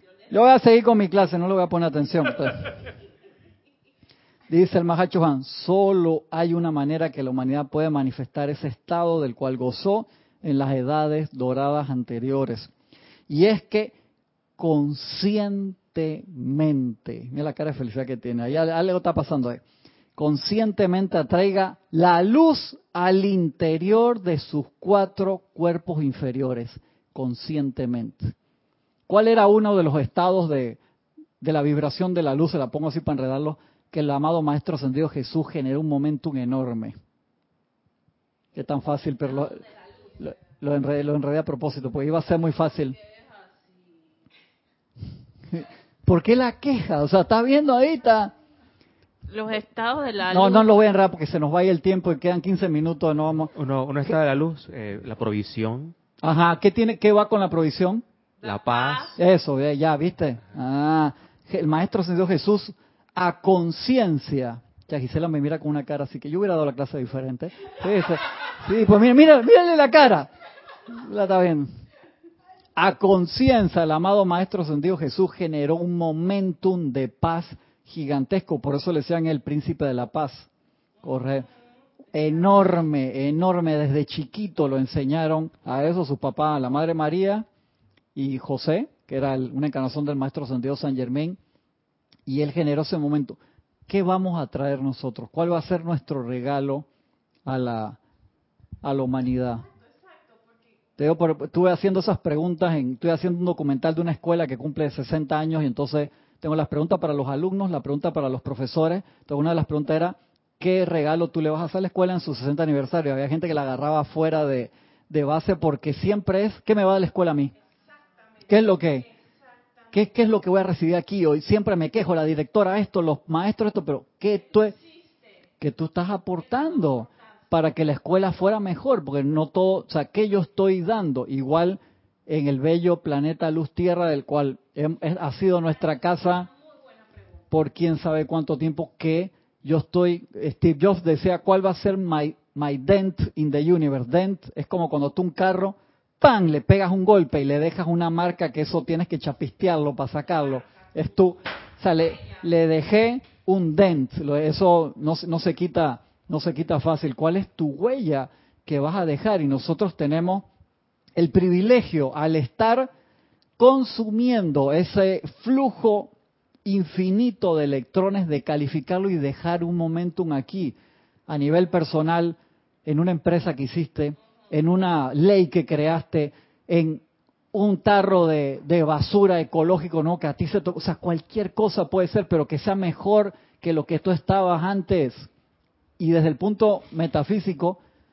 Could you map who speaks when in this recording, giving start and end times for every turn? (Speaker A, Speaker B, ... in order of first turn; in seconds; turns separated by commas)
Speaker A: 0.3-2.7, Speaker A: 4.5-12.7, Speaker A: 13.3-13.9, Speaker A: 14.6-19.6, Speaker A: 20.2-28.3, Speaker A: 29.1-30.8, Speaker A: 31.4-37.0, Speaker A: 38.5-43.0, Speaker A: 45.5-48.3, Speaker B: 49.3-50.7, Speaker A: 50.3-53.5, Speaker C: 53.5-56.0, Speaker A: 56.2-58.0, Speaker C: 58.4-59.2, Speaker B: 58.6-59.1, Speaker A: 59.2-70.3, Speaker A: 70.9-71.7, Speaker A: 72.8-80.5, Speaker A: 81.0-81.5, Speaker A: 82.1-87.5, Speaker A: 88.2-91.4, Speaker A: 92.3-96.9, Speaker A: 97.5-98.0, Speaker A: 98.8-99.7, Speaker A: 101.0-117.5, Speaker A: 118.5-119.1, Speaker A: 119.9-124.8, Speaker A: 125.6-136.5, Speaker A: 137.5-160.5, Speaker A: 161.2-162.9, Speaker A: 163.6-166.1, Speaker A: 166.7-170.8, Speaker A: 171.3-177.0, Speaker A: 177.5-185.3, Speaker A: 186.0-187.8